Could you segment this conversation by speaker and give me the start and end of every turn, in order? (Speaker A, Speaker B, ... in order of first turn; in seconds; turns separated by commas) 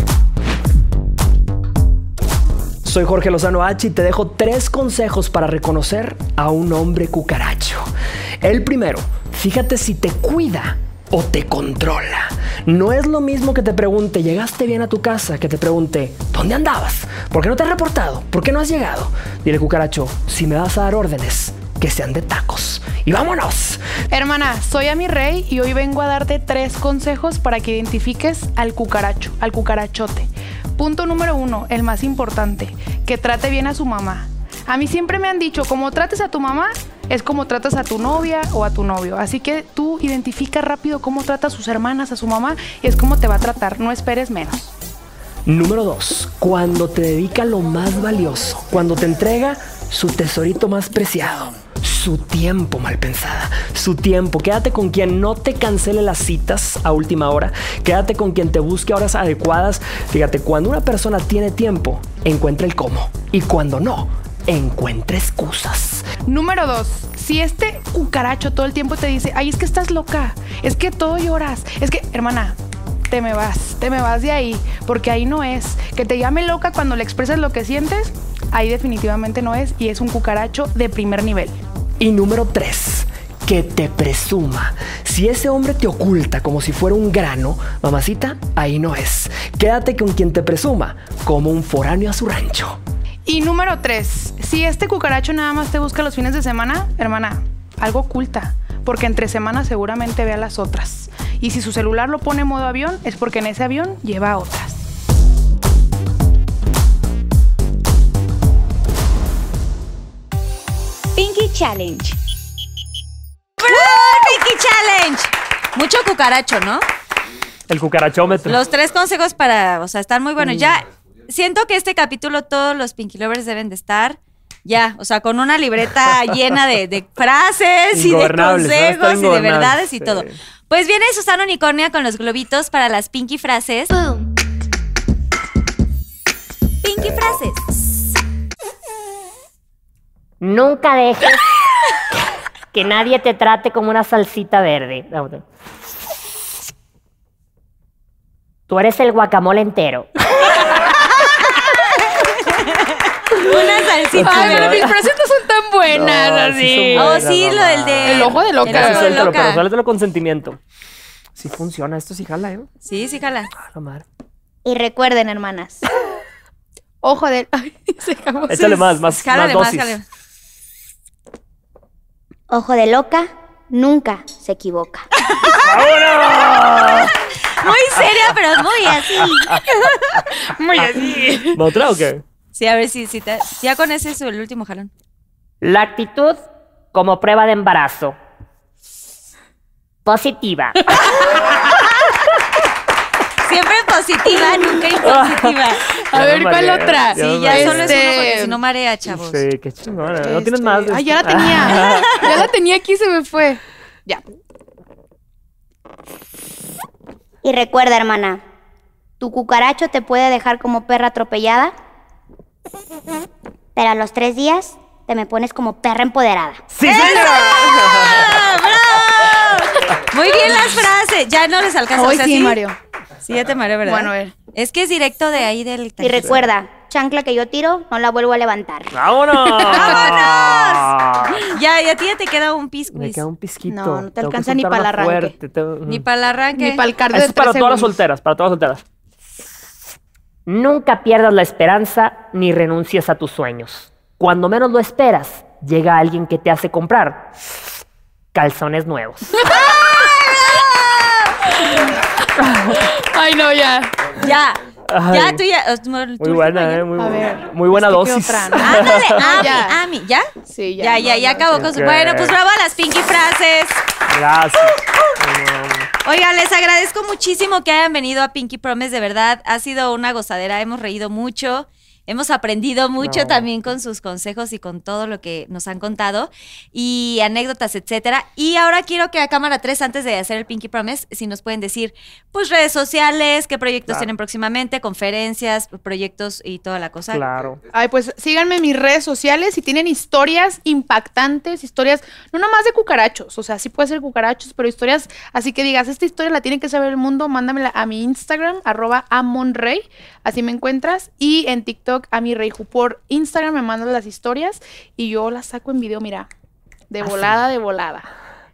Speaker A: 2.8-7.9, Speaker A: 8.4-23.8, Speaker B: 24.1-44.7, Speaker A: 45.5-66.1, Speaker B: 66.3-72.6, Speaker B: 73.1-81.6, Speaker A: 82.0-92.8, Speaker B: 93.3-104.8, Speaker C: 111.2-112.2, Speaker C: 113.6-116.8, Speaker A: 117.7-118.7, Speaker C: 118.5-133.9, Speaker A: 120.4-120.8, Speaker A: 127.9-130.4, Speaker C: 136.8-137.7, Speaker D: 140.4-141.4, Speaker D: 142.7-145.4, Speaker D: 148.7-150.1, Speaker C: 152.4-154.9, Speaker A: 154.1-155.1, Speaker B: 154.2-157.2, Speaker A: 155.9-160.6, Speaker C: 157.0-159.6, Speaker B: 158.0-159.2, Speaker A: 161.4-162.7, Speaker C: 162.9-163.5, Speaker A: 163.6-164.0, Speaker E: 164.7-165.4, Speaker B: 165.3-165.9, Speaker B: 167.0-168.9, Speaker A: 168.5-170.0, Speaker C: 169.1-170.1, Speaker E: 172.5-175.1, Speaker C: 175.2-175.7, Speaker A: 175.6-177.1, Speaker C: 177.5-180.3, Speaker A: 177.9-179.6, Speaker B: 180.4-181.7, Speaker A: 180.8-182.2, Speaker C: 182.5-184.9, Speaker D: 185.6-188.2, Speaker D: 190.1-190.8, Speaker C: 193.4-195.8, Speaker A: 195.0-195.6, Speaker B: 196.1-198.6, Speaker A: 196.1-198.2, Speaker C: 197.2-199.4, Speaker A: 199.1-202.5, Speaker B: 200.2-204.2, Speaker C: 201.7-202.3, Speaker E: 207.4-208.4, Speaker E: 209.2-211.7, Speaker E: 213.8-216.7, Speaker A: 216.7-219.0, Speaker C: 216.8-222.6, Speaker B: 217.0-217.3, Speaker B: 221.9-222.8, Speaker C: 223.2-226.5, Speaker B: 223.8-224.3, Speaker E: 226.0-229.0, Speaker A: 228.9-231.5, Speaker B: 229.5-230.2, Speaker C: 229.7-230.9, Speaker C: 231.4-233.2, Speaker A: 232.9-236.0, Speaker E: 233.7-235.3, Speaker C: 235.9-236.8, Speaker B: 236.6-237.9, Speaker A: 237.1-238.8, Speaker D: 240.5-247.3, Speaker D: 248.3-249.3, Speaker B: 249.5-250.1, Speaker C: 249.8-251.2, Speaker B: 251.5-251.9, Speaker A: 252.4-252.8, Speaker B: 252.7-254.1, Speaker C: 254.2-256.9, Speaker A: 254.9-255.4, Speaker A: 256.2-259.6, Speaker B: 257.0-259.8, Speaker C: 258.6-260.3, Speaker B: 260.5-261.7, Speaker C: 260.8-263.8, Speaker A: 261.5-262.4, Speaker A: 264.1-265.9, Speaker C: 266.0-287.3, Speaker A: 273.0-273.5, Speaker A: 287.1-287.6, Speaker B: 287.7-306.3, Speaker B: 306.9-308.1, Speaker A: 307.0-307.4